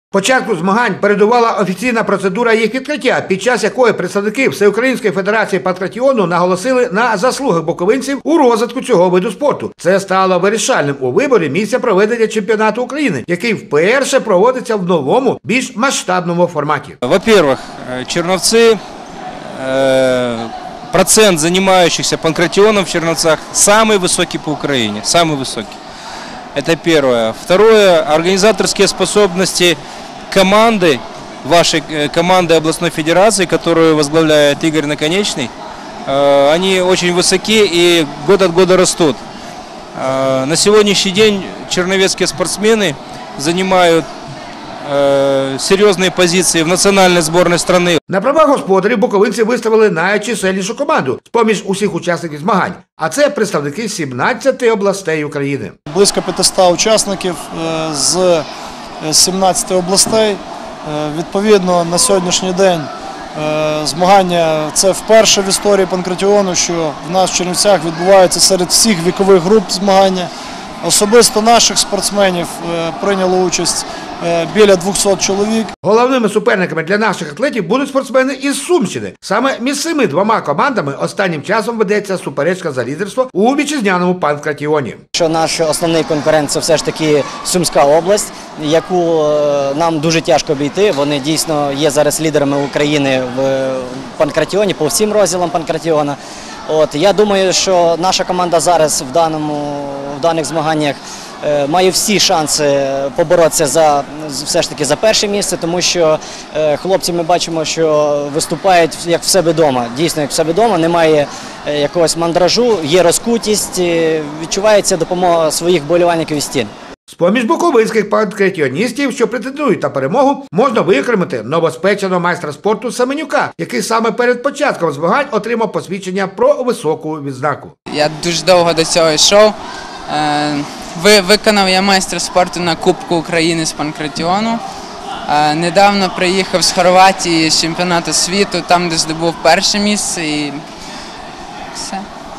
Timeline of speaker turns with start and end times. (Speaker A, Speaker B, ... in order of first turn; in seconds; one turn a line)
Speaker A: 0.1-17.0
Speaker B: 17.0-18.8
Speaker B: 19.5-25.8
Speaker B: 26.5-29.8
Speaker B: 30.3-35.5
Speaker B: 36.0-39.2
Speaker B: 39.9-44.1
Speaker B: 44.8-48.0
Speaker A: 48.1-55.7
Speaker C: 55.9-58.5
Speaker C: 59.0-70.3
Speaker C: 70.8-75.7
Speaker A: 75.8-85.0
Speaker D: 85.1-116.7
Speaker A: 117.1-127.7
Speaker E: 127.9-129.6
Speaker E: 130.1-134.6
Speaker E: 135.3-140.6
Speaker E: 141.7-142.1